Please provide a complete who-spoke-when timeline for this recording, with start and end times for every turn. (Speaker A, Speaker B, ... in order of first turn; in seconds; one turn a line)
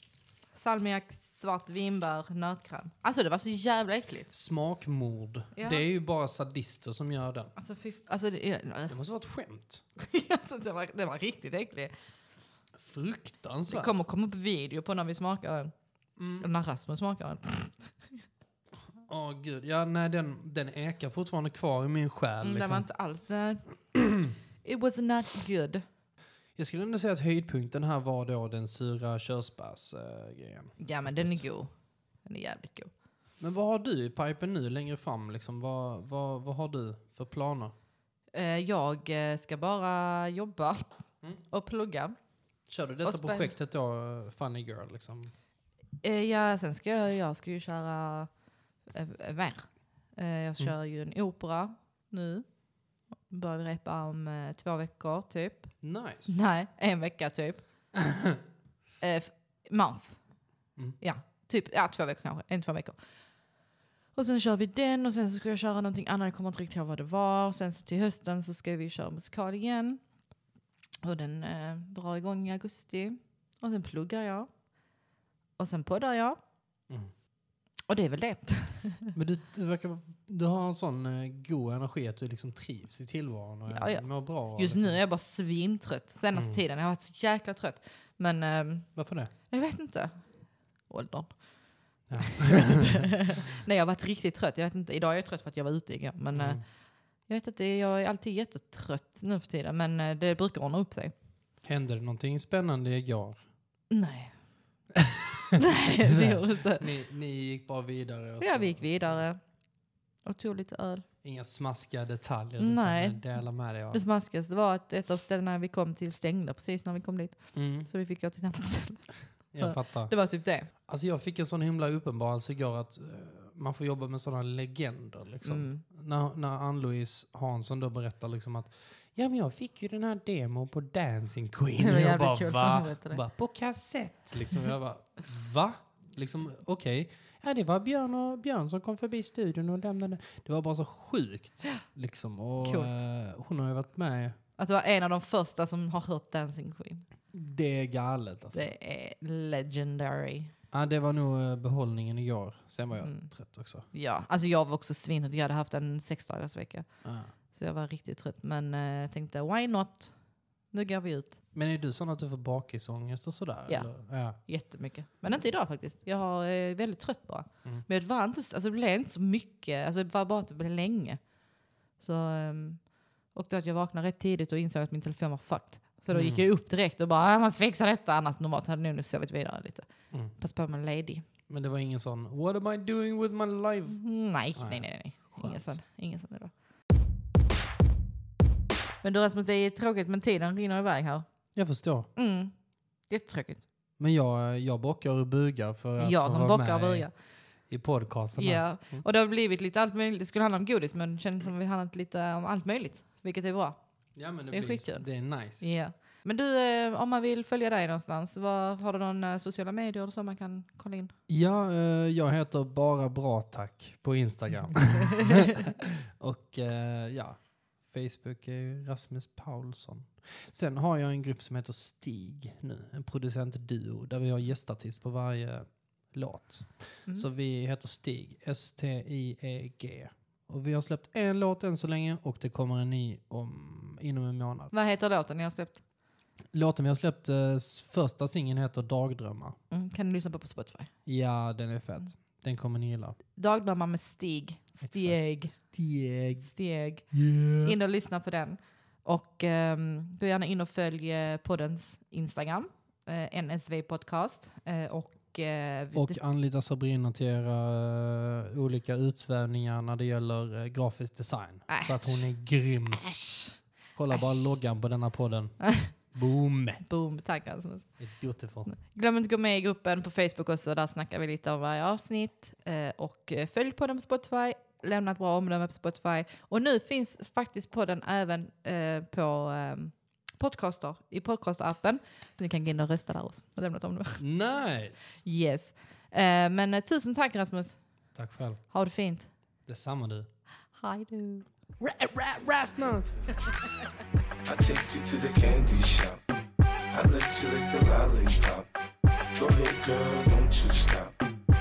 Speaker A: 0.5-4.3
Speaker B: 4.3-7.5
Speaker A: 5.5-5.8
Speaker A: 7.5-9.0
Speaker B: 8.9-9.8
Speaker A: 9.9-11.9
Speaker B: 12.7-13.9
Speaker A: 13.7-15.7
Speaker B: 16.2-16.5
Speaker A: 16.4-18.2
Speaker B: 19.1-22.9
Speaker A: 22.4-23.6
Speaker A: 24.6-25.8
Speaker B: 26.6-31.4
Speaker A: 30.8-31.7
Speaker A: 32.2-32.9
Speaker B: 33.4-37.7
Speaker A: 38.3-41.0
Speaker A: 41.5-42.2
Speaker B: 42.7-45.3
Speaker A: 43.0-43.5
Speaker A: 46.0-48.3
Speaker A: 48.9-52.5
Speaker A: 53.3-55.7
Speaker B: 55.8-56.3
Speaker A: 56.3-57.6
Speaker B: 57.9-58.4
Speaker A: 59.0-60.2
Speaker A: 61.0-63.0
Speaker A: 64.1-70.0
Speaker A: 71.0-74.5
Speaker A: 75.6-76.4
Speaker A: 77.9-79.1
Speaker B: 79.1-85.0
Speaker A: 83.7-88.9
Speaker B: 86.3-86.6
Speaker B: 88.9-89.3
Speaker A: 89.5-90.3
Speaker A: 90.9-91.4
Speaker B: 92.1-93.2
Speaker A: 92.2-96.7
Speaker B: 96.3-96.6
Speaker A: 97.3-101.1
Speaker B: 101.6-103.4
Speaker A: 103.9-104.3
Speaker B: 104.9-109.2
Speaker A: 105.6-106.8
Speaker A: 108.4-109.4
Speaker A: 110.2-111.0
Speaker B: 111.2-114.0
Speaker A: 112.6-113.2
Speaker A: 113.9-120.7
Speaker B: 117.5-117.9
Speaker B: 119.5-120.1
Speaker B: 120.7-144.4
Speaker A: 125.4-125.8
Speaker A: 131.8-133.2
Speaker A: 142.6-142.9
Speaker A: 144.6-147.1
Speaker B: 147.3-148.7
Speaker A: 148.5-150.5
Speaker B: 150.7-153.8
Speaker A: 152.9-153.3
Speaker A: 153.9-156.9
Speaker B: 157.0-157.3
Speaker A: 157.4-160.1
Speaker A: 160.7-161.4
Speaker B: 161.5-164.4
Speaker A: 163.7-171.2
Speaker A: 172.0-181.2
Speaker B: 176.1-176.4
Speaker B: 181.5-184.0
Speaker A: 183.9-186.5
Speaker B: 184.6-185.7
Speaker A: 189.0-191.2
Speaker B: 191.5-192.1
Speaker A: 192.2-192.5
Speaker A: 193.1-193.6
Speaker B: 194.0-197.1
Speaker A: 196.0-197.1
Speaker B: 197.7-199.0
Speaker A: 198.3-203.8
Speaker B: 204.2-205.7
Speaker A: 204.5-205.1
Speaker A: 205.6-211.1
Speaker B: 211.3-234.7
Speaker A: 215.2-215.5
Speaker A: 234.7-235.8
Speaker B: 236.5-239.6
Speaker A: 239.7-240.9
Speaker B: 241.1-243.2
Speaker A: 243.3-245.5
Speaker B: 244.8-246.5
Speaker A: 246.4-256.2
Speaker B: 247.1-247.8
Speaker B: 255.9-263.1
Speaker A: 261.7-262.2
Speaker A: 263.0-263.6
Speaker B: 263.9-266.8
Speaker A: 265.6-265.9
Speaker A: 266.8-268.0
Speaker B: 268.0-268.7
Speaker A: 268.6-284.2
Speaker B: 284.2-285.2
Speaker A: 285.2-287.8
Speaker B: 288.1-288.6
Speaker A: 288.7-289.3
Speaker B: 289.7-290.3
Speaker A: 290.7-291.4
Speaker B: 291.8-293.2
Speaker C: 294.4-296.2
Speaker C: 296.9-298.7
Speaker C: 299.4-301.3